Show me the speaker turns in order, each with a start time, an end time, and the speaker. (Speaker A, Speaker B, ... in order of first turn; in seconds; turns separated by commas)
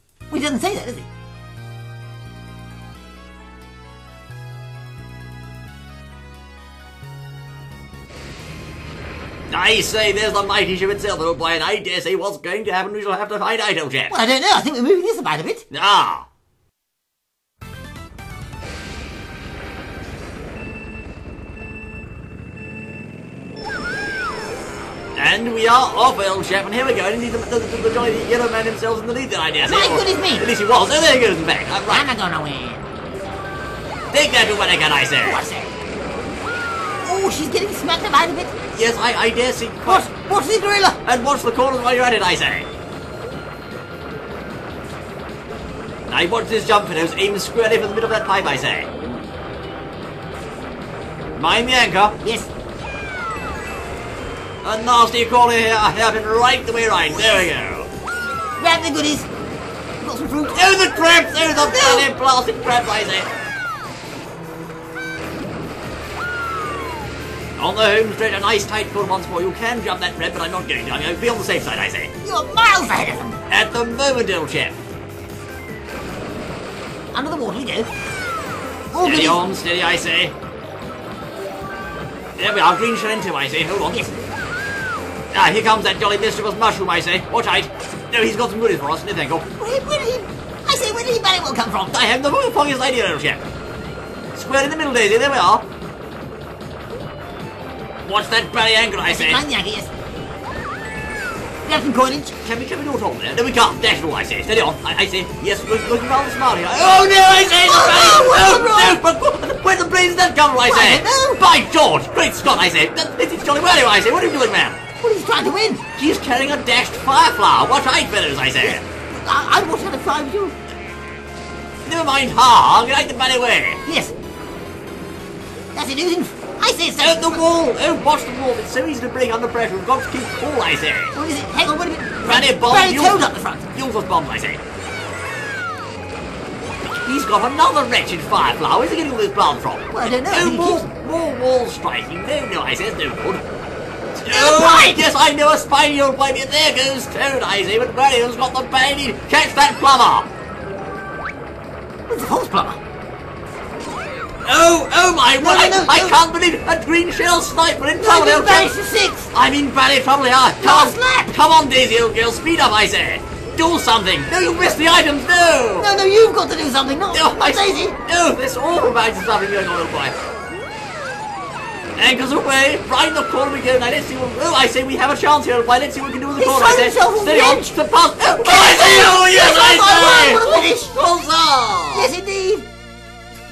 Speaker A: 0.3-1.1, Speaker B: 9.5-14.2, Speaker A: 14.1-15.6, Speaker B: 15.7-16.3, Speaker B: 25.1-32.1, Speaker A: 29.7-30.5, Speaker A: 31.9-32.8, Speaker B: 34.1-35.4, Speaker A: 35.2-35.7, Speaker A: 37.0-38.5, Speaker B: 38.7-40.1, Speaker A: 39.9-41.0, Speaker B: 41.0-42.7, Speaker B: 46.1-48.9, Speaker B: 51.4-52.2, Speaker A: 52.2-52.5, Speaker B: 54.6-57.9, Speaker A: 58.6-59.3, Speaker A: 60.0-60.7, Speaker B: 60.5-63.3, Speaker A: 61.4-62.1, Speaker B: 67.6-72.1, Speaker A: 72.2-73.4, Speaker B: 73.5-74.8, Speaker A: 77.1-77.9, Speaker A: 78.9-79.4, Speaker B: 79.0-80.3, Speaker B: 82.4-84.1, Speaker B: 85.3-89.5, Speaker A: 89.6-92.0, Speaker B: 91.8-93.5, Speaker B: 94.3-95.6, Speaker B: 98.0-99.4, Speaker A: 99.0-99.9, Speaker A: 101.6-102.3, Speaker B: 102.4-114.8, Speaker A: 107.6-109.0, Speaker A: 110.7-111.4, Speaker A: 115.0-115.8, Speaker B: 116.0-118.8, Speaker A: 118.6-120.5, Speaker B: 121.8-123.8, Speaker A: 123.8-124.1, Speaker A: 125.7-127.5, Speaker B: 127.0-131.2, Speaker A: 131.1-133.7, Speaker B: 132.2-134.6, Speaker B: 136.8-143.4, Speaker A: 139.9-140.8, Speaker B: 144.1-150.3, Speaker A: 144.3-145.0, Speaker A: 152.1-152.8, Speaker B: 154.4-158.7, Speaker A: 155.4-156.2, Speaker A: 157.9-159.3, Speaker B: 159.3-165.9, Speaker A: 160.6-161.3, Speaker A: 165.8-168.0, Speaker B: 167.1-170.1, Speaker B: 171.9-182.1, Speaker A: 176.3-177.7, Speaker A: 178.4-180.9, Speaker A: 181.9-182.7